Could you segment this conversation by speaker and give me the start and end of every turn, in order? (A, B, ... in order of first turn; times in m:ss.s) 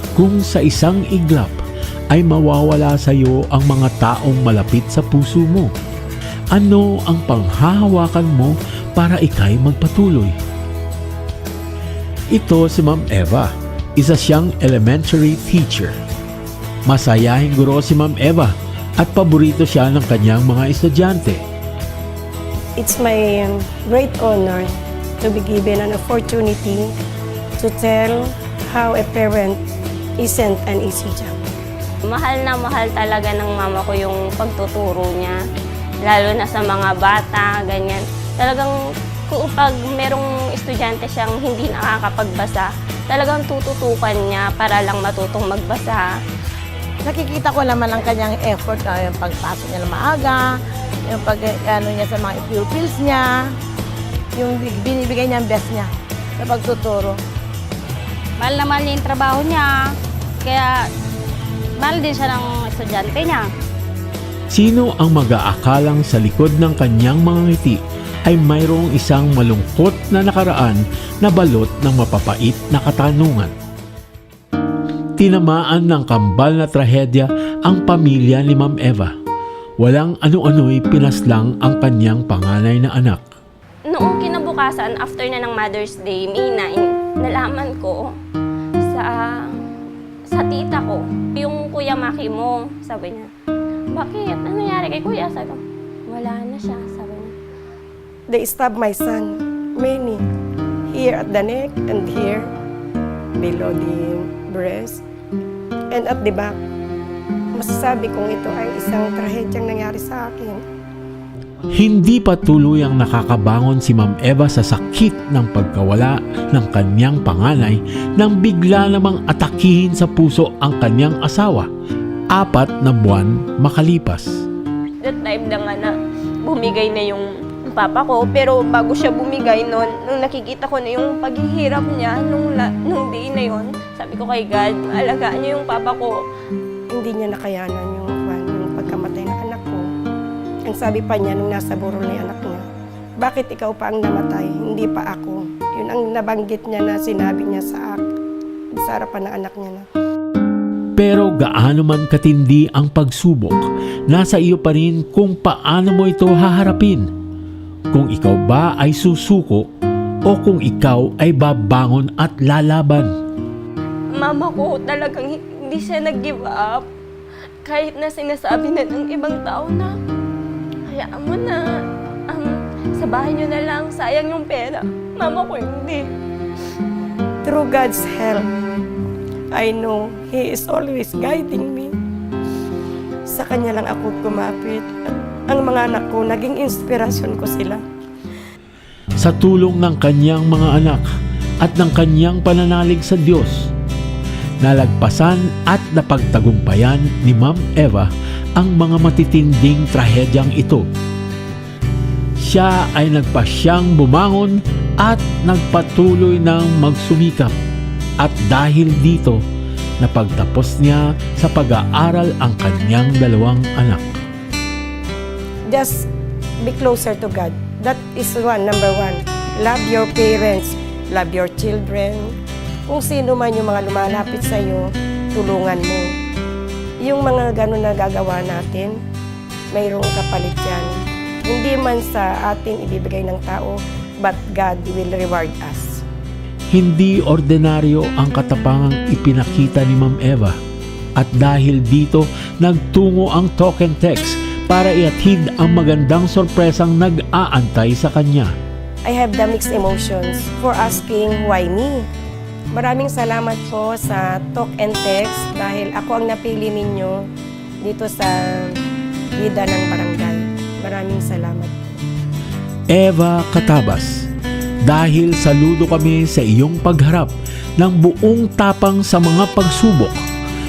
0:00.2-0:01.6 A
0:02.1-0:05.7 A
0:06.5-0:10.4 A
0:12.3-0:16.0 A
0:16.9-0:21.4 A
0:22.8-0:26.9 B
0:27.6-0:29.6 B
0:30.2-0:31.4 B
0:32.1-0:35.4 C
0:36.0-0:38.7 C
0:39.3-0:46.2 C
0:47.0-0:50.6 D
0:51.1-0:53.4 D
0:54.4-0:57.2 D
0:58.4-0:59.8 E
1:00.4-1:00.9 E
1:01.8-1:03.5 E
1:04.5-1:13.5 A
1:15.2-1:19.1 A
1:19.8-1:23.2 A
1:23.9-1:28.1 C
1:28.8-1:29.6 C
1:30.3-1:33.3 C
1:33.9-1:37.3 C
1:38.3-1:40.2 B
1:40.9-1:42.5 B
1:43.4-1:45.0 B
1:45.9-1:46.6 B
1:47.6-1:50.6 B
1:51.8-2:01.7 A
2:02.3-2:04.4 A
2:05.0-2:16.1 C
2:16.9-2:19.9 B
2:20.7-2:22.6 B
2:23.2-2:28.0 B
2:28.8-2:29.9 B
2:31.0-2:37.1 A
2:37.9-2:39.7 A
2:40.3-2:43.1 A
2:44.2-2:46.9 C
2:47.6-2:50.0 C
2:50.9-2:51.6 C
2:52.3-2:56.0 C
2:57.4-2:58.5 B
2:59.6-3:01.9 B
3:03.3-3:04.9 B
3:05.5-3:07.8 B
3:09.2-3:11.1 A
3:11.6-3:13.7 A
3:14.6-3:20.9 A
3:22.4-3:27.6 A
3:28.2-3:29.4 A
3:30.0-3:34.2 A
3:35.7-3:36.1 B
3:36.6-3:42.4 B
3:42.9-3:46.1 B
3:47.0-3:49.0 B
3:49.7-3:56.0 B
3:56.7-4:00.6 A
4:01.2-4:08.5 A
4:09.0-4:12.0 B
4:12.7-4:17.3 B
4:17.8-4:18.8 B
4:19.4-4:22.0 B
4:22.9-4:24.3 A
4:24.8-4:30.2 A